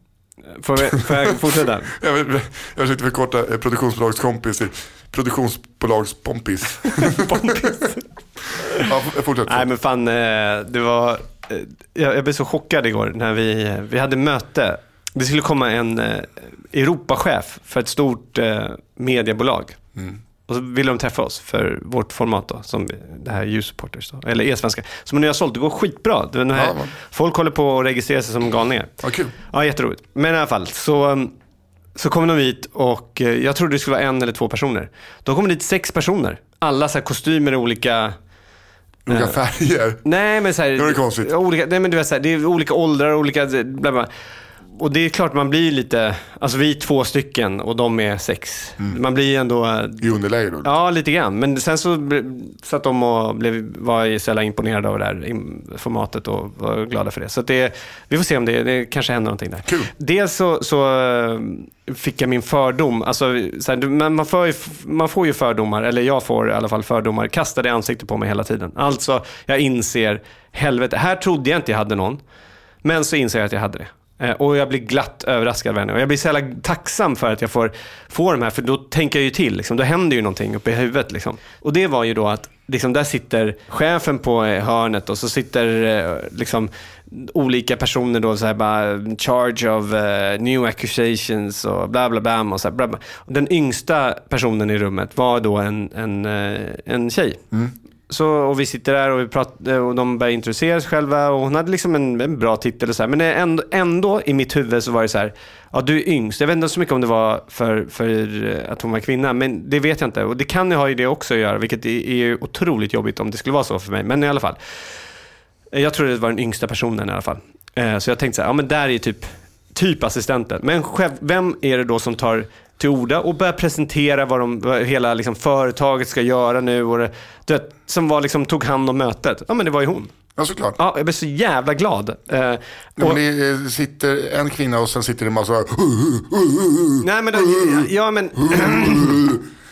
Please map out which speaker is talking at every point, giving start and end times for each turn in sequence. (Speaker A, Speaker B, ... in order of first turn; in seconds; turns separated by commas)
Speaker A: 0.6-1.9, Speaker B: 0.9-7.7, Speaker A: 7.0-8.0, Speaker B: 8.8-9.7, Speaker A: 9.5-19.8, Speaker A: 20.5-31.3, Speaker B: 26.5-26.9, Speaker B: 29.0-29.3, Speaker A: 32.0-38.2, Speaker B: 39.1-40.1, Speaker A: 39.1-39.4, Speaker A: 40.0-44.1, Speaker B: 40.8-41.3, Speaker A: 44.7-50.1, Speaker B: 50.0-50.7, Speaker A: 50.6-72.2, Speaker B: 59.6-59.9, Speaker A: 72.8-97.4, Speaker A: 98.1-114.6, Speaker A: 115.7-130.1, Speaker B: 130.4-130.8, Speaker A: 130.8-133.2, Speaker B: 133.0-139.4, Speaker A: 137.0-139.2